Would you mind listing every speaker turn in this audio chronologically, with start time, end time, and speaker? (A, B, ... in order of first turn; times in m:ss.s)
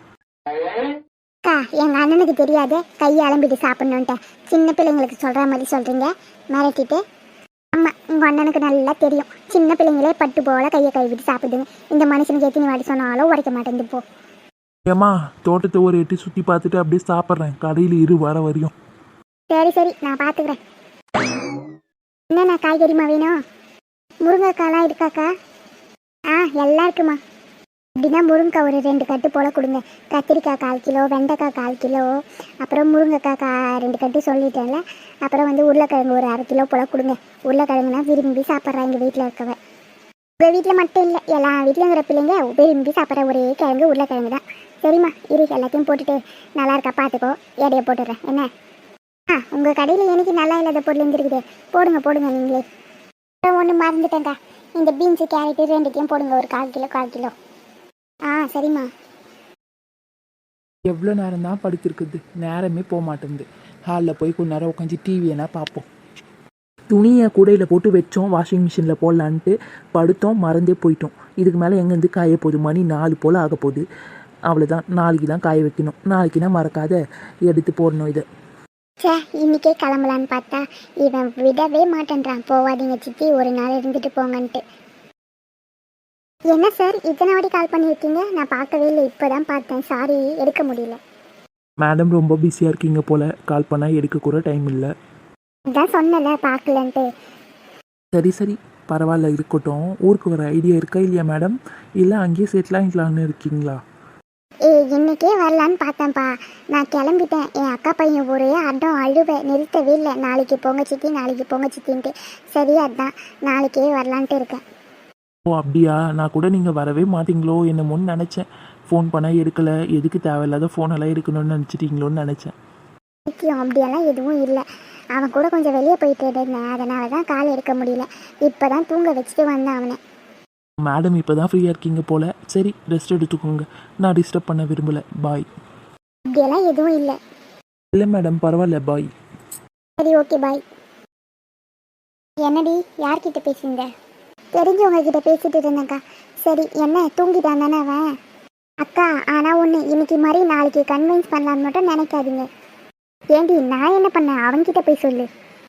0:01.4-0:07.0 A
0:07.7-0:14.0 A
0:14.9-0:18.7 B
0:19.5-0:20.6 A
0:22.3-0:23.4 A
0:24.2-0:25.3 A
0:26.3-0:27.2 A
0:28.0-0:39.6 A
0:40.4-0:48.5 A
0:49.3-0:52.6 A
0:53.4-0:57.3 A
0:58.3-0:58.9 A
1:00.9-1:05.8 C
1:06.9-1:13.8 C
1:14.5-1:18.2 C
1:17.9-1:18.2 B
1:19.0-1:24.6 A
1:26.5-1:31.0 A
1:31.8-1:34.9 B
1:35.7-1:37.1 A
1:38.1-1:43.8 B
1:44.7-1:54.6 A
1:55.5-2:02.5 B
2:03.3-2:04.6 A
2:05.2-2:10.0 A
2:10.8-2:15.5 B
2:16.3-2:17.2 A
2:17.9-2:19.1 B
2:20.0-2:20.6 A
2:22.4-2:23.9 A
2:24.6-2:28.0 A
2:28.8-2:32.5 A
2:33.3-2:35.3 A